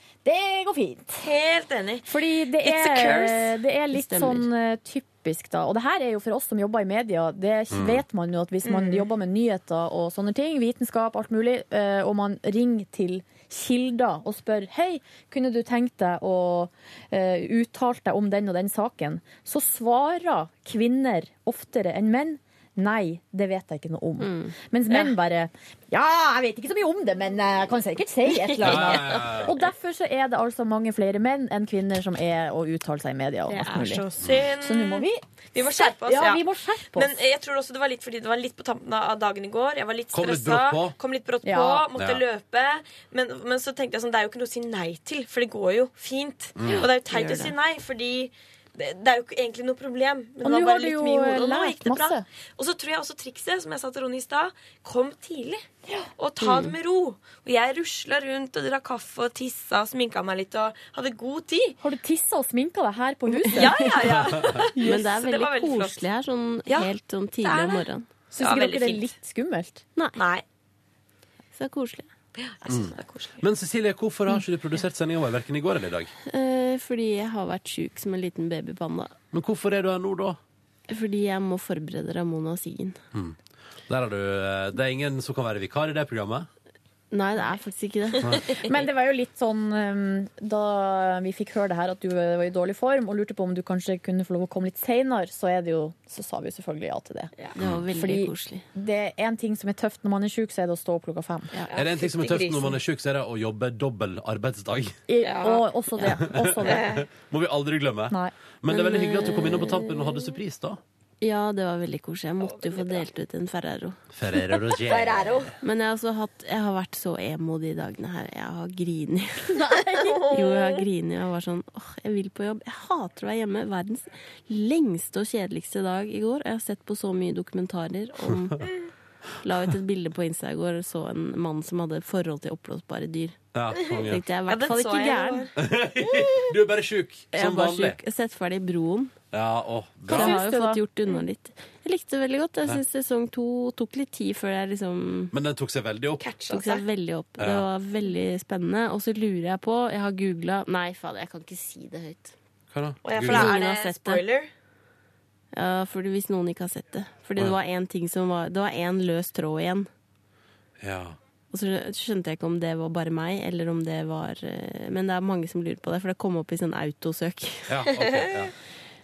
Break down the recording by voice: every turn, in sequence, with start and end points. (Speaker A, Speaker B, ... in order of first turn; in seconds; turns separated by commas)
Speaker A: 0.2-1.2, Speaker B: 1.2-2.1, Speaker A: 2.1-34.0, Speaker B: 2.6-3.6, Speaker C: 3.9-4.5, Speaker D: 7.7-8.0, Speaker B: 8.7-9.1, Speaker C: 24.2-24.5, Speaker D: 28.6-29.6, Speaker C: 33.6-33.8, Speaker B: 33.6-36.4, Speaker D: 34.2-34.5, Speaker A: 34.6-37.1, Speaker B: 37.0-55.6, Speaker D: 40.1-41.0, Speaker A: 41.4-41.8, Speaker D: 42.0-42.2, Speaker D: 46.6-46.9, Speaker C: 47.0-47.6, Speaker A: 50.4-52.2, Speaker B: 56.2-61.8, Speaker C: 56.4-56.8, Speaker A: 61.8-64.0, Speaker B: 63.5-66.0, Speaker D: 64.2-64.6, Speaker A: 64.8-65.0, Speaker C: 64.8-68.1, Speaker B: 66.7-67.9, Speaker A: 68.3-69.8, Speaker B: 68.4-69.1, Speaker C: 70.0-70.2, Speaker B: 70.2-70.4, Speaker C: 71.5-72.1, Speaker B: 72.4-73.4, Speaker D: 72.7-76.1, Speaker C: 76.3-79.2, Speaker D: 79.3-80.4, Speaker C: 80.9-83.0, Speaker D: 83.9-86.5, Speaker C: 87.1-88.4, Speaker A: 88.6-97.3, Speaker C: 97.5-98.7, Speaker A: 98.0-101.5, Speaker B: 101.7-102.8, Speaker D: 101.8-105.0, Speaker A: 105.1-106.9, Speaker B: 105.2-105.6, Speaker D: 106.1-110.8, Speaker B: 106.7-107.0, Speaker C: 108.7-110.4, Speaker C: 111.2-114.0, Speaker B: 112.4-113.1, Speaker D: 114.1-115.5, Speaker B: 114.8-115.5, Speaker C: 115.6-119.6, Speaker A: 119.5-120.2, Speaker B: 120.0-120.8, Speaker C: 120.3-128.7, Speaker C: 129.4-133.4, Speaker D: 133.5-134.2, Speaker C: 134.0-135.5, Speaker B: 134.5-135.5, Speaker D: 135.6-138.0, Speaker C: 137.3-139.1, Speaker D: 139.3-140.4, Speaker C: 140.1-145.3, Speaker A: 140.1-140.8, Speaker D: 145.3-146.2, Speaker B: 146.2-146.8, Speaker C: 146.5-152.3, Speaker D: 147.4-147.7, Speaker D: 152.7-153.5, Speaker B: 153.0-154.5, Speaker C: 153.2-154.3, Speaker C: 155.5-159.9, Speaker D: 160.8-161.2, Speaker C: 161.5-167.9, Speaker D: 167.7-168.5